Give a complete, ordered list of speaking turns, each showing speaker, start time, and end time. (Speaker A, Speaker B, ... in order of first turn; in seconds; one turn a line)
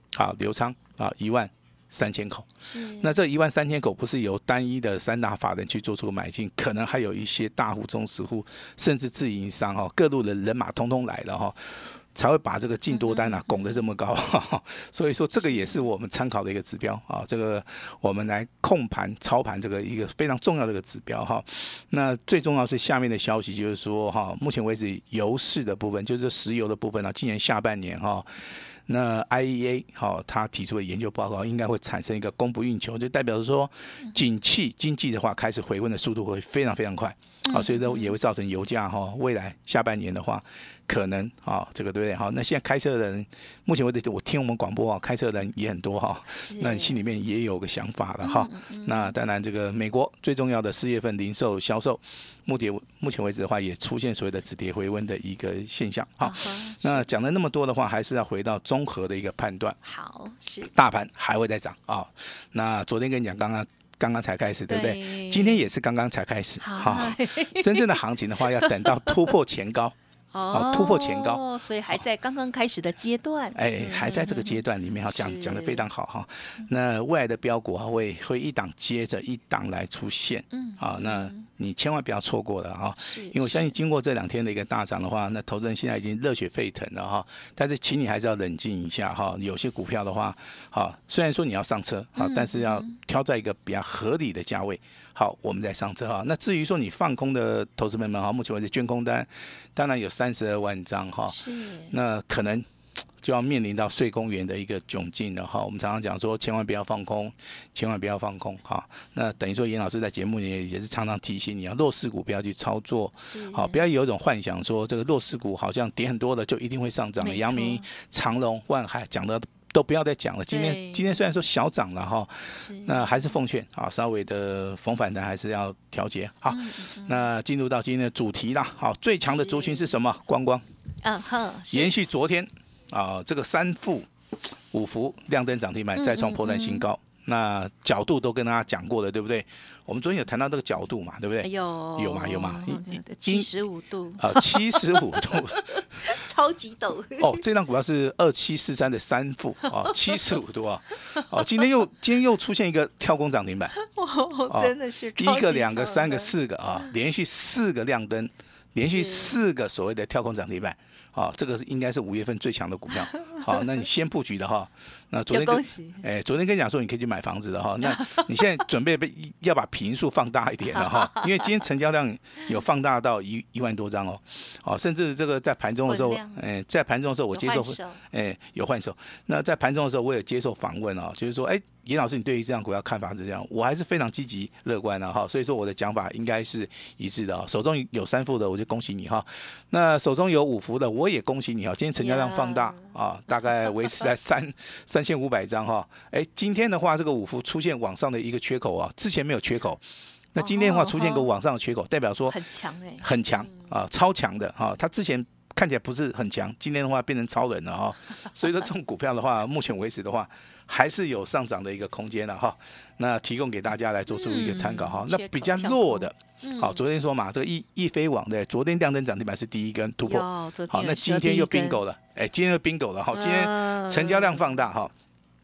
Speaker A: 0.1-2.5
Speaker B: 2.6-3.1
Speaker A: 3.0-59.8
Speaker B: 12.9-13.7
Speaker B: 15.3-15.8
Speaker B: 37.5-38.1
Speaker B: 46.3-47.0
Speaker B: 48.2-49.1
Speaker B: 56.2-57.1
Speaker B: 59.8-60.7
Speaker A: 60.7-69.9
Speaker B: 64.7-65.7
Speaker B: 66.6-69.2
Speaker B: 70.3-75.9
Speaker A: 70.5-71.4
Speaker A: 73.5-102.7
Speaker B: 80.5-81.5
Speaker B: 83.0-83.7
Speaker B: 92.2-92.9
Speaker B: 101.3-101.9
Speaker A: 103.2-130.6
Speaker B: 113.2-113.8
Speaker B: 117.2-117.8
Speaker B: 120.5-121.2
Speaker B: 122.5-123.3
Speaker B: 126.5-127.3
Speaker B: 129.2-129.9
Speaker B: 131.0-131.9
Speaker A: 131.7-134.1
Speaker A: 134.7-143.5
Speaker B: 135.9-136.8
Speaker B: 141.4-147.4
Speaker A: 144.2-146.1
Speaker A: 147.2-153.7
Speaker B: 149.7-150.3
Speaker B: 151.1-151.4
Speaker B: 153.8-156.3
Speaker A: 154.5-199.8
Speaker B: 158.8-159.3
Speaker B: 163.3-163.6
Speaker B: 165.3-166.0
Speaker B: 167.8-168.4
Speaker B: 170.8-171.3
Speaker B: 175.9-176.4
Speaker B: 177.3-178.0
Speaker B: 192.0-192.9
Speaker A: 200.3-202.4
Speaker B: 200.4-201.3
Speaker B: 202.2-203.1
Speaker A: 203.0-224.9
Speaker B: 214.1-216.8
Speaker B: 220.0-221.8
Speaker B: 223.1-224.5